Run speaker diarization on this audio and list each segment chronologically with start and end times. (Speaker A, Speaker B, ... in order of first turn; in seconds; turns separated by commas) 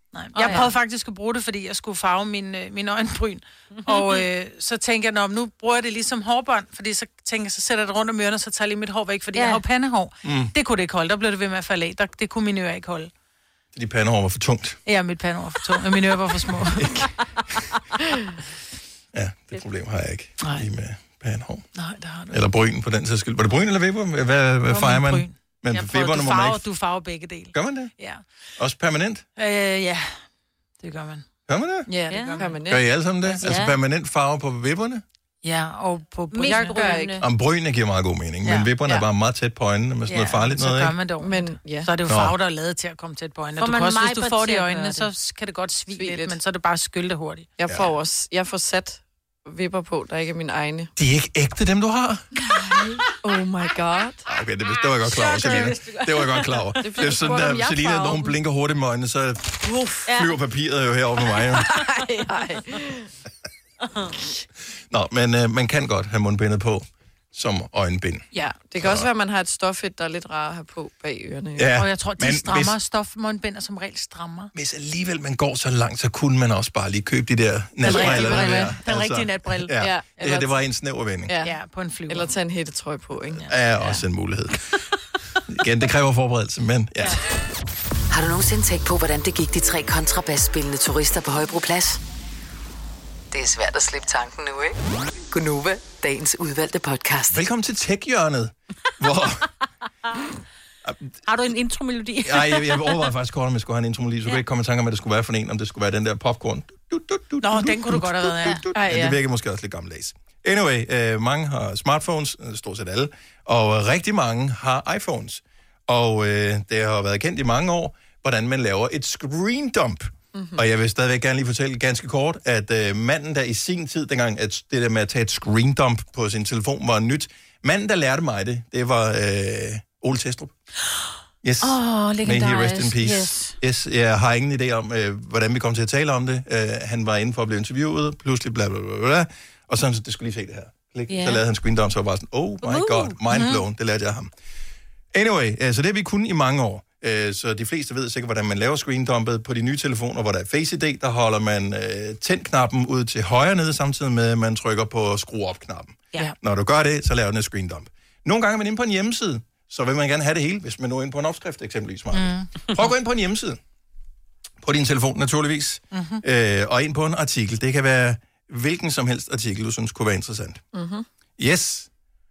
Speaker A: 0.1-13.1, Speaker B: 0.3-0.7, Speaker B: 3.9-4.2, Speaker B: 9.3-9.6, Speaker C: 10.2-10.5, Speaker C: 13.7-14.8, Speaker A: 14.8-16.9, Speaker C: 19.1-21.6, Speaker A: 21.7-22.4, Speaker C: 22.3-26.6, Speaker A: 24.7-28.2, Speaker C: 27.5-27.9, Speaker C: 28.6-29.2, Speaker A: 29.4-30.2, Speaker A: 30.8-31.3, Speaker C: 31.5-31.9, Speaker A: 31.9-32.5, Speaker B: 32.1-32.5, Speaker D: 32.3-32.9, Speaker C: 32.7-35.0, Speaker B: 33.4-33.8, Speaker A: 35.4-37.0, Speaker B: 36.3-37.2, Speaker D: 36.7-37.2, Speaker C: 37.2-41.0, Speaker A: 38.4-38.7, Speaker A: 40.1-47.5, Speaker D: 41.2-41.9, Speaker C: 42.1-42.3, Speaker B: 43.6-45.1, Speaker D: 45.9-46.4, Speaker D: 47.6-50.9, Speaker C: 51.0-52.3, Speaker D: 52.8-54.2, Speaker C: 54.3-61.7, Speaker B: 55.0-56.6, Speaker D: 55.4-55.7, Speaker D: 56.8-58.4, Speaker D: 59.6-60.0, Speaker B: 60.1-60.3, Speaker D: 61.7-63.1, Speaker C: 64.9-69.1, Speaker D: 68.3-71.7, Speaker C: 71.5-72.8, Speaker A: 71.8-74.5, Speaker C: 74.5-81.3, Speaker D: 77.8-78.7, Speaker A: 77.8-80.3, Speaker D: 79.8-80.5, Speaker D: 81.3-81.5, Speaker A: 81.4-82.3, Speaker D: 82.1-83.5, Speaker C: 83.5-84.7, Speaker C: 85.5-87.2, Speaker E: 88.1-92.0, Speaker E: 93.3-94.8, Speaker E: 95.3-97.4, Speaker C: 97.3-99.5, Speaker C: 100.8-101.1, Speaker B: 101.2-103.1, Speaker C: 102.2-130.5, Speaker A: 107.4-108.7, Speaker D: 108.7-109.2, Speaker D: 120.3-120.6, Speaker C: 131.4-144.3, Speaker B: 131.6-133.6, Speaker B: 141.1-141.4, Speaker B: 142.6-143.5, Speaker A: 143.3-143.6, Speaker C: 145.1-163.6, Speaker A: 162.1-162.5, Speaker C: 164.6-170.6, Speaker A: 165.9-166.2, Speaker D: 170.7-171.1, Speaker C: 171.4-171.9